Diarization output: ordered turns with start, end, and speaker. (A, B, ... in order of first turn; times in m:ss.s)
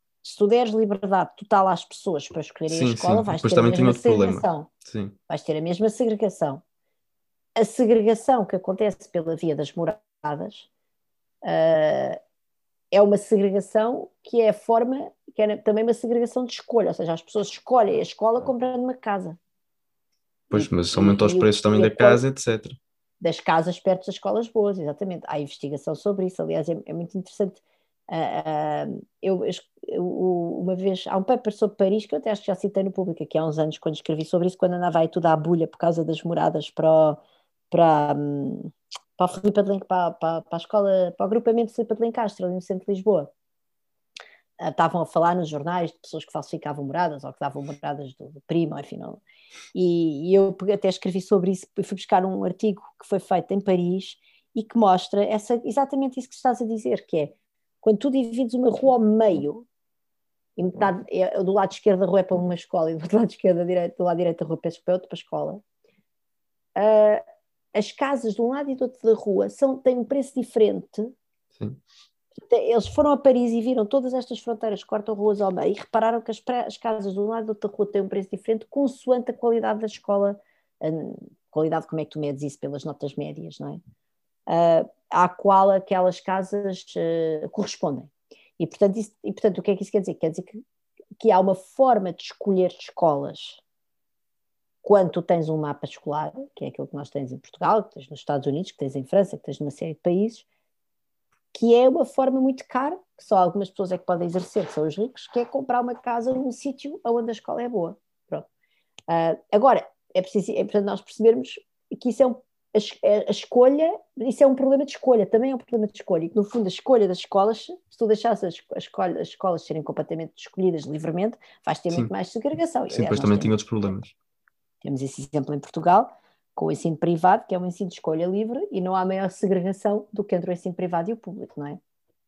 0:00.2-0:04.7 A
0:02.7-0:05.2 B
0:05.3-0:06.6 A
0:07.6-0:10.7 A
0:11.4-0:12.2 A
0:12.9-0:19.4 A
0:20.5-0:22.8 B
0:20.5-0:22.2 A
0:23.2-0:43.3 A
0:44.6-0:49.2 A
0:49.7-0:59.7 A
1:00.6-1:05.6 A
1:06.8-1:07.2 A
1:07.8-1:11.1 A
1:12.5-1:23.8 A
1:24.5-1:30.6 A
1:31.2-1:33.6 A
1:34.8-1:40.5 A
1:41.5-1:48.5 A
1:49.1-2:03.5 A
2:02.9-2:04.1 B
2:04.8-2:11.8 A